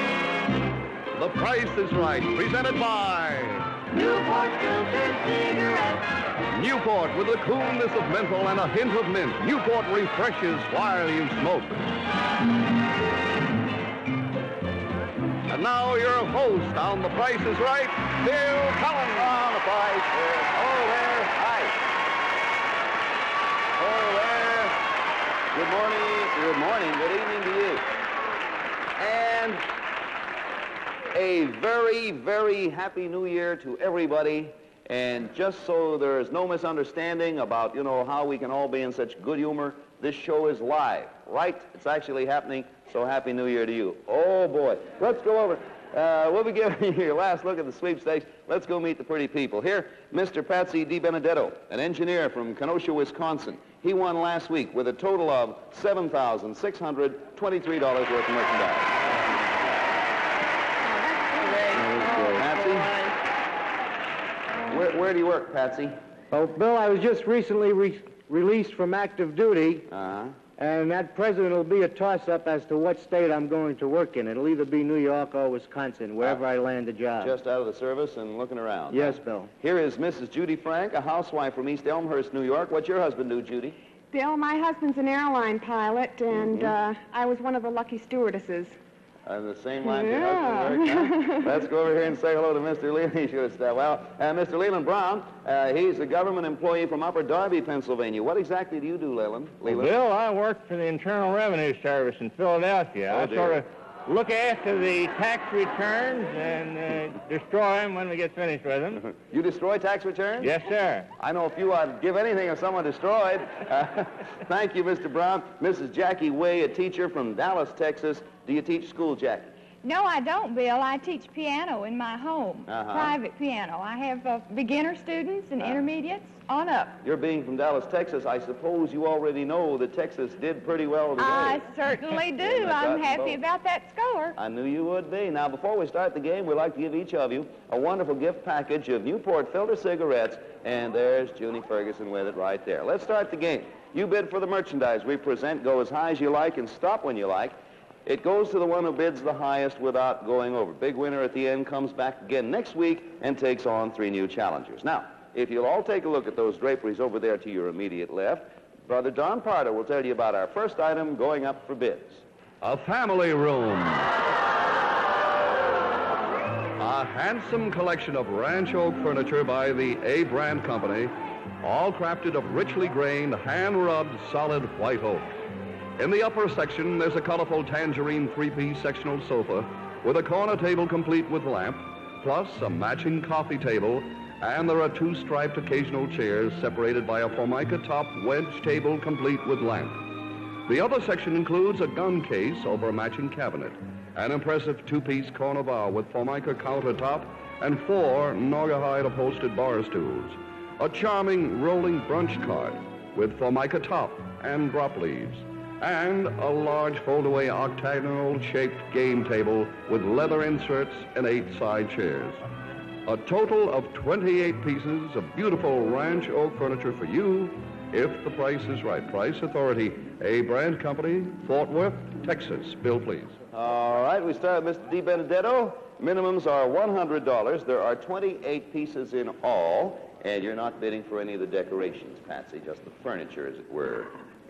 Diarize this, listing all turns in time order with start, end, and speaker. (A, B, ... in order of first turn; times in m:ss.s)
0:01.1-0:03.8 A
0:03.9-0:05.9 B
0:06.5-0:11.8 A
0:15.5-0:19.3 A
0:19.1-0:21.8 C
0:23.8-0:24.8 C
0:25.5-0:27.8 C
0:29.0-0:29.6 C
0:31.1-0:59.3 C
1:00.9-1:03.1 D
1:01.7-1:02.4 E
1:02.3-1:02.9 C
1:04.7-1:06.0 C
1:06.3-1:09.9 E
1:09.9-1:10.4 C
1:10.6-1:17.4 E
1:17.2-1:23.8 C
1:18.9-1:19.5 E
1:24.1-1:28.8 D
1:26.3-1:26.7 C
1:29.2-1:39.9 C
1:29.8-1:31.4 D
1:39.6-1:49.0 F
1:43.1-1:43.6 C
1:49.1-1:50.5 C
1:50.4-1:51.1 F
1:51.2-1:59.5 C
1:59.8-2:07.0 G
2:02.7-2:03.2 C
2:07.0-2:11.6 C
2:11.2-2:14.4 G
2:12.4-2:13.4 C
2:14.4-2:42.2 C
2:42.6-2:44.1 A
2:46.8-2:55.4 A
2:56.0-3:32.4 A
3:33.0-3:43.4 A
3:43.5-3:54.1 C